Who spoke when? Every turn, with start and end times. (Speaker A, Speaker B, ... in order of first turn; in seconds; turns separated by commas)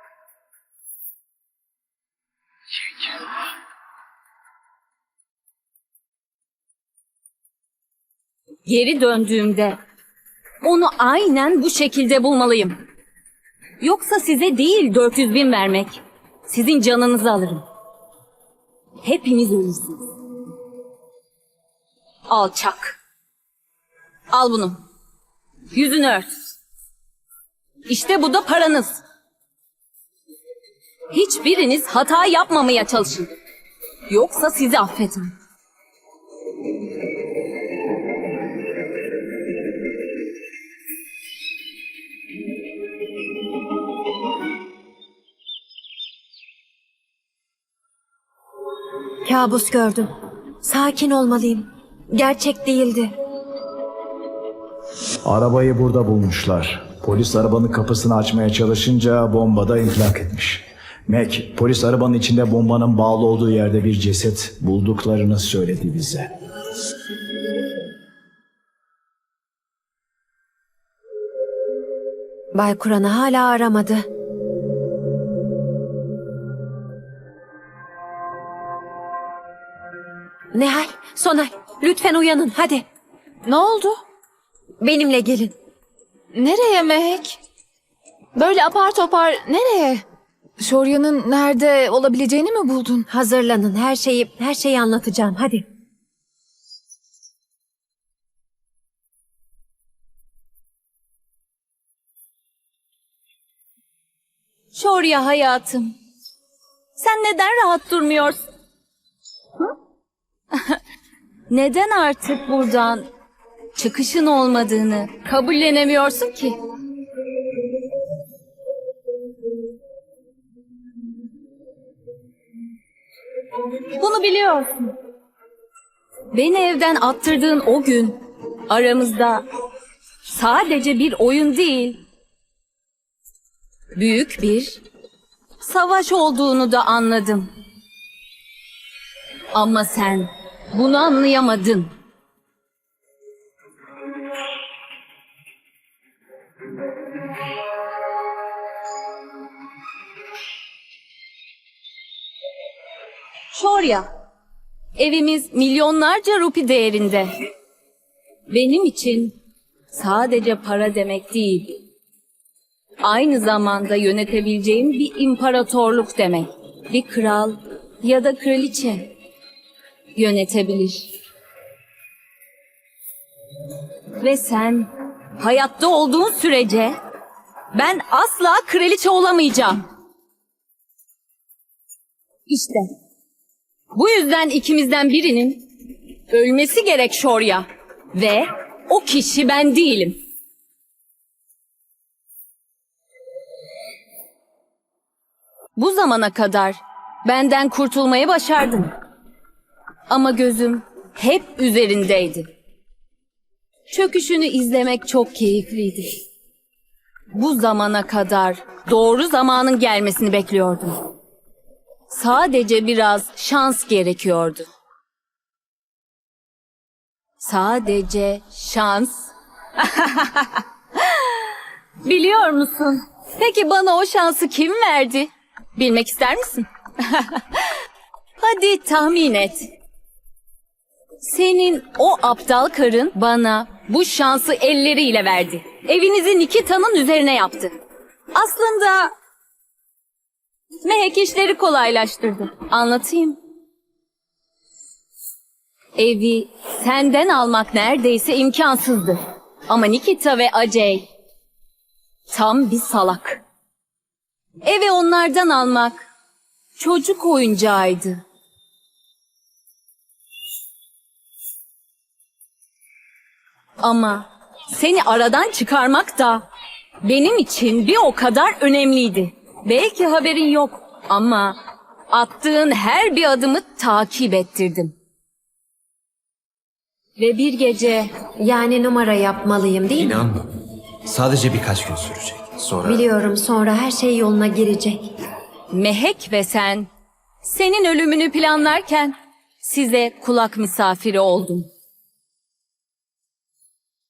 Speaker A: 8.7-9.8, Speaker A: 10.6-12.8, Speaker A: 13.8-17.6, Speaker A: 19.0-20.0, Speaker A: 22.3-23.0, Speaker A: 24.3-24.8, Speaker A: 25.7-26.3, Speaker A: 27.9-29.0, Speaker A: 31.1-33.3, Speaker A: 34.1-35.3, Speaker B: 49.2-50.1, Speaker B: 50.6-53.1, Speaker C: 55.2-66.3, Speaker B: 72.5-74.0, Speaker B: 80.5-82.8, Speaker D: 83.5-84.0, Speaker B: 84.8-85.5, Speaker D: 86.3-87.4, Speaker D: 88.3-90.0, Speaker D: 90.6-93.0, Speaker B: 93.1-95.6, Speaker A: 104.7-105.9, Speaker A: 107.0-108.4, Speaker A: 111.5-113.0, Speaker A: 113.7-116.5, Speaker A: 123.9-124.9, Speaker A: 126.3-129.4, Speaker A: 130.2-132.0, Speaker A: 133.9-134.8, Speaker A: 135.6-137.5, Speaker A: 139.5-141.9, Speaker A: 153.5-154.1, Speaker A: 154.9-157.4, Speaker A: 158.5-159.3, Speaker A: 159.9-161.8, Speaker A: 163.0-169.1, Speaker A: 170.1-171.1, Speaker A: 174.2-176.9, Speaker A: 177.7-179.8, Speaker A: 182.5-182.8, Speaker A: 183.9-185.7, Speaker A: 186.3-190.2, Speaker A: 195.7-198.9, Speaker A: 200.1-202.5, Speaker A: 203.9-206.2, Speaker A: 207.3-211.1, Speaker A: 212.1-214.7, Speaker A: 217.4-227.7, Speaker A: 228.4-229.7, Speaker A: 231.2-237.7, Speaker A: 238.3-239.1, Speaker A: 240.8-243.4, Speaker A: 245.9-251.1, Speaker A: 252.3-253.4, Speaker A: 254.6-256.0, Speaker A: 256.8-258.2, Speaker A: 263.8-266.5, Speaker A: 267.0-271.6, Speaker A: 272.1-274.9, Speaker A: 277.2-278.1, Speaker B: 278.4-280.2, Speaker E: 281.1-283.0, Speaker B: 282.8-285.1, Speaker A: 285.7-286.9, Speaker A: 287.4-291.7